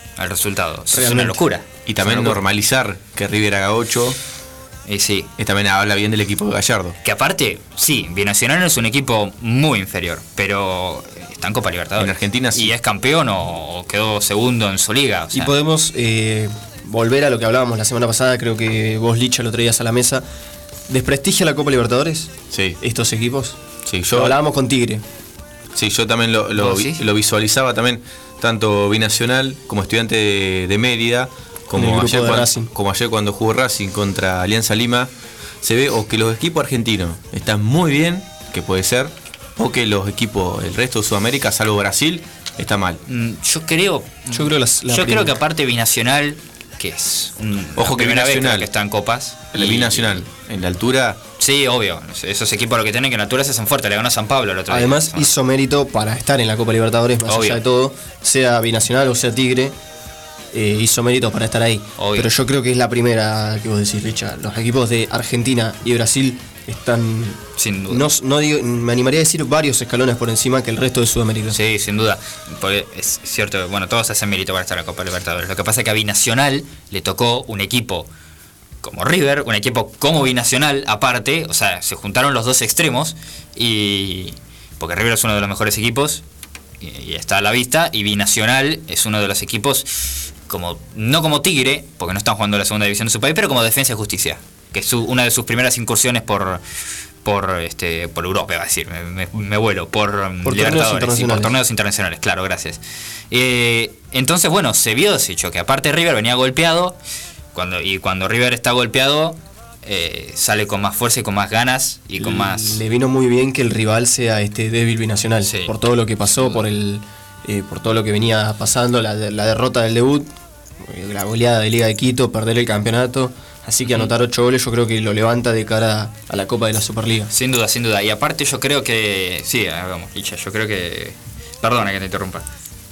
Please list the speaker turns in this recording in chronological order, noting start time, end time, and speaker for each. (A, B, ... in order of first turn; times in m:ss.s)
0:00.2-0:02.4 A
0:00.9-0:01.4 B
0:01.8-0:04.2 C
0:04.9-0:05.3 A
0:05.4-0:07.0 C
0:07.0-0:15.5 A
0:12.0-0:12.7 C
0:15.3-0:20.2 B
0:20.9-0:23.6 B
0:22.5-0:22.8 C
0:23.8-0:24.4 C
0:24.1-0:25.0 B
0:25.7-0:35.1 C
0:26.6-0:27.0 A
0:31.7-0:32.7 B
0:35.6-0:43.0 C
0:43.1-0:50.2 A
0:44.3-0:45.3 B
0:47.8-0:48.7 C
0:49.5-0:51.2 C
0:51.4-0:55.3 A
0:54.7-0:59.7 B
0:57.3-0:57.6 A
1:00.5-1:11.6 B
1:02.0-1:02.3 A
1:07.6-1:08.0 A
1:11.5-1:18.1 A
1:18.8-1:26.2 A
1:26.8-1:36.6 A
1:37.2-1:47.0 A
1:40.4-1:41.5 B
1:47.5-1:52.8 A
1:52.2-2:00.3 B
1:55.4-1:55.7 A
1:56.4-1:56.6 A
2:00.8-2:07.3 B
2:07.3-2:12.4 A